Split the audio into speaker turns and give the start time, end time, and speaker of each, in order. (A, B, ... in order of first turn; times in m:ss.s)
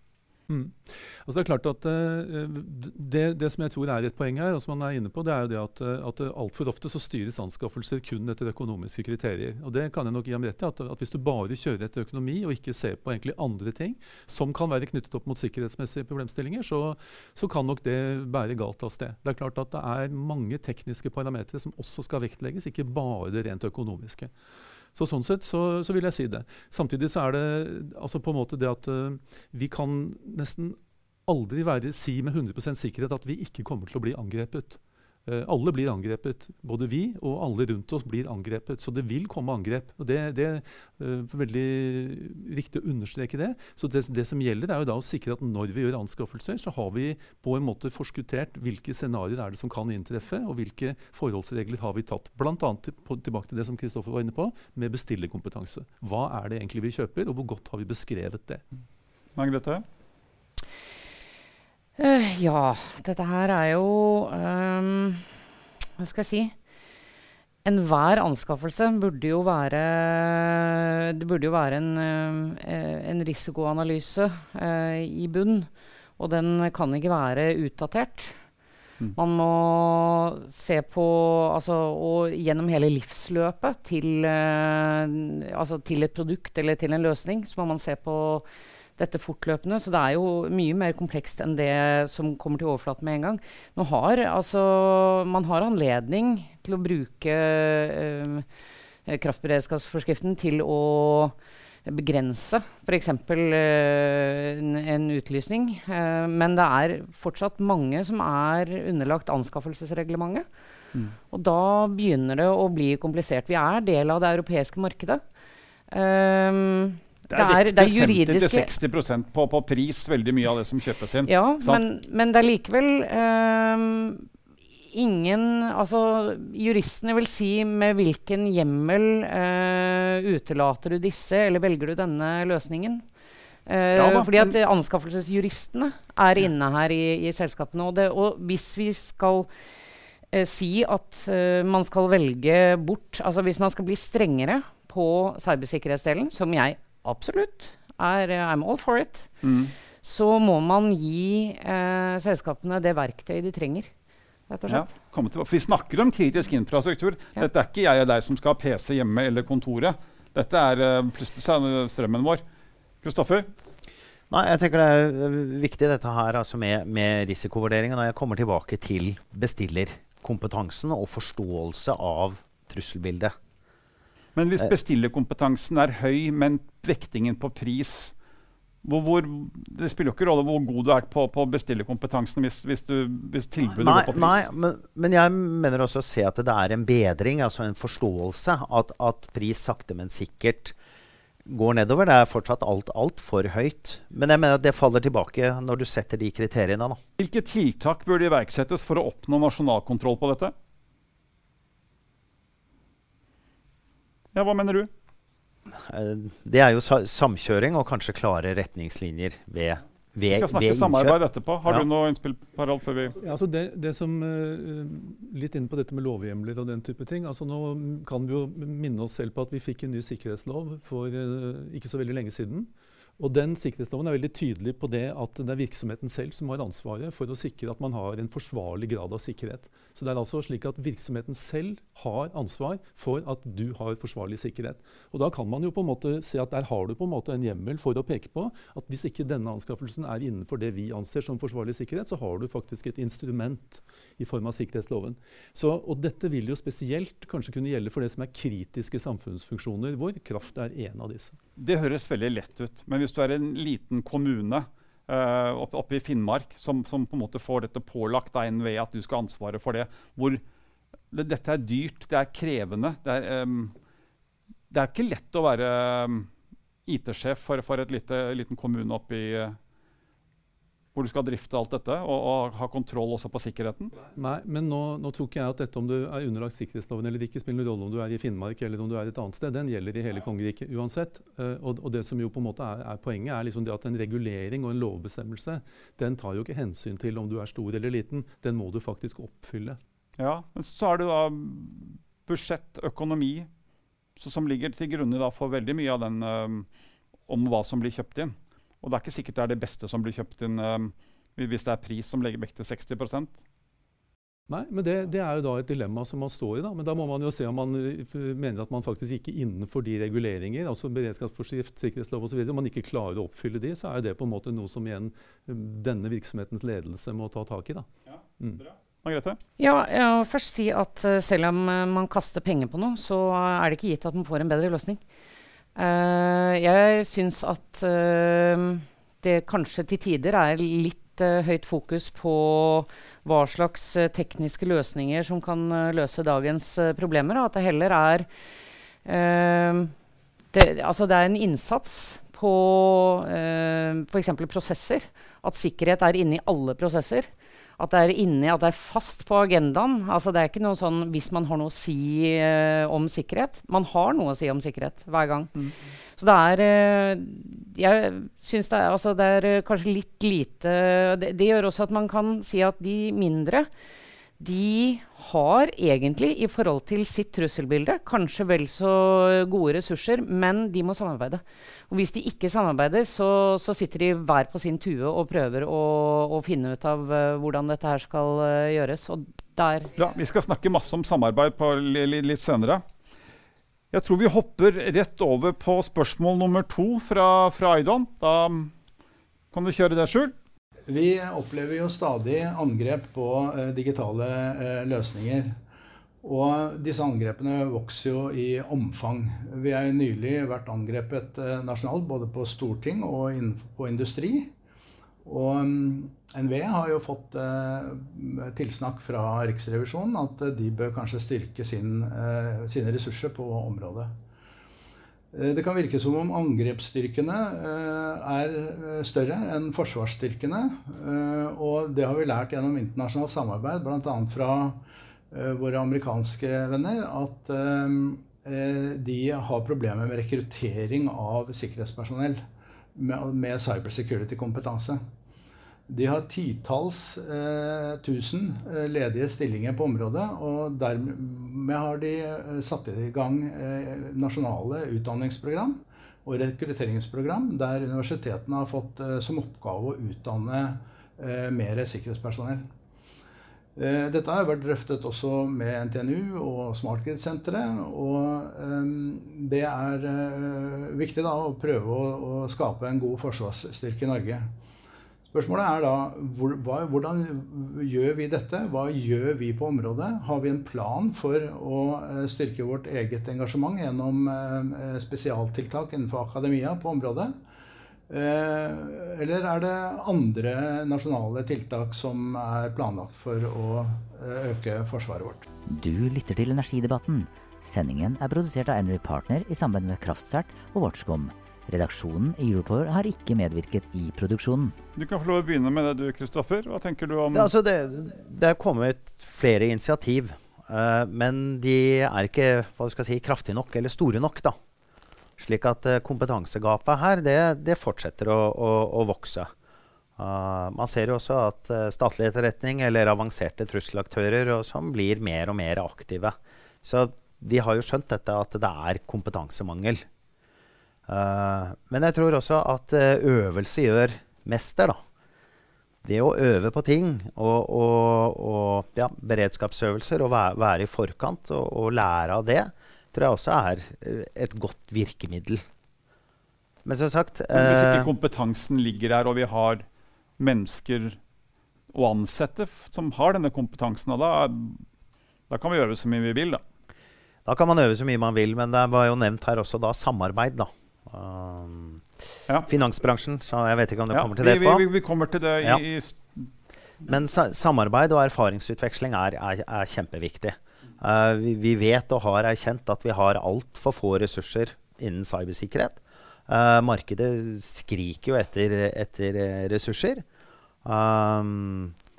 0:00.5-0:24.3 A
0:25.0-0:58.6 A
0:59.4-0:59.8 B
1:02.0-1:05.3 C
1:06.0-1:06.6 C
1:07.6-1:18.4 C
1:19.2-1:28.5 C
1:29.0-1:38.5 C
1:39.1-1:50.5 C
1:51.3-1:55.2 C
1:55.9-1:58.7 C
1:57.3-2:01.8 B
2:01.3-2:04.3 C
2:04.9-2:13.0 C
2:13.7-2:19.5 C
2:14.0-2:14.5 B
2:20.3-2:29.3 C
2:29.4-2:29.7 B
2:30.0-2:33.9 C
2:34.5-2:34.9 C
2:34.7-2:42.4 B
2:43.0-2:43.5 B
2:44.3-2:53.3 D
2:54.4-2:58.1 B
2:58.8-3:04.5 B
3:03.8-3:10.8 D
3:11.4-3:17.0 D
3:17.2-3:20.5 B
3:24.3-3:24.9 B
3:25.7-3:31.9 D
3:30.3-3:33.2 B
3:33.2-4:11.4 A
4:11.6-4:20.4 B
4:21.1-4:23.7 B
4:24.7-4:26.3 B
4:26.9-4:29.6 B
4:31.0-4:34.0 B
4:34.1-4:49.8 A
4:50.2-4:53.5 B
4:54.2-4:56.7 B
4:57.3-5:03.3 B
5:04.5-5:17.9 A
5:19.0-5:19.4 B
5:19.6-5:25.0 C
5:25.8-5:38.3 C
5:39.0-5:39.9 C
5:40.5-5:55.5 C
5:56.2-6:03.7 C
6:04.4-6:19.9 C
6:20.0-6:22.8 B
6:23.9-6:28.7 B
6:29.5-6:30.3 B
6:30.9-6:35.6 E
6:36.2-6:44.5 E
6:45.2-6:54.2 E
6:55.3-7:12.4 E
7:13.0-7:15.0 E
7:15.9-7:32.6 E
7:33.8-7:44.5 E
7:45.3-7:57.4 E
7:58.1-8:05.5 E
8:05.7-8:14.8 F
8:15.0-8:17.5 B
8:17.3-8:24.6 D
8:25.4-8:29.5 D
8:30.2-8:40.0 D
8:41.1-8:45.0 D
8:46.0-8:55.6 D
8:56.8-8:58.1 D
8:57.5-8:59.8 B
9:00.4-9:01.2 B
9:01.9-9:04.8 B
9:05.5-9:06.6 B
9:07.4-9:12.0 D
9:12.7-9:14.8 D
9:14.1-9:16.5 B
9:17.0-9:30.2 D
9:30.8-9:32.0 D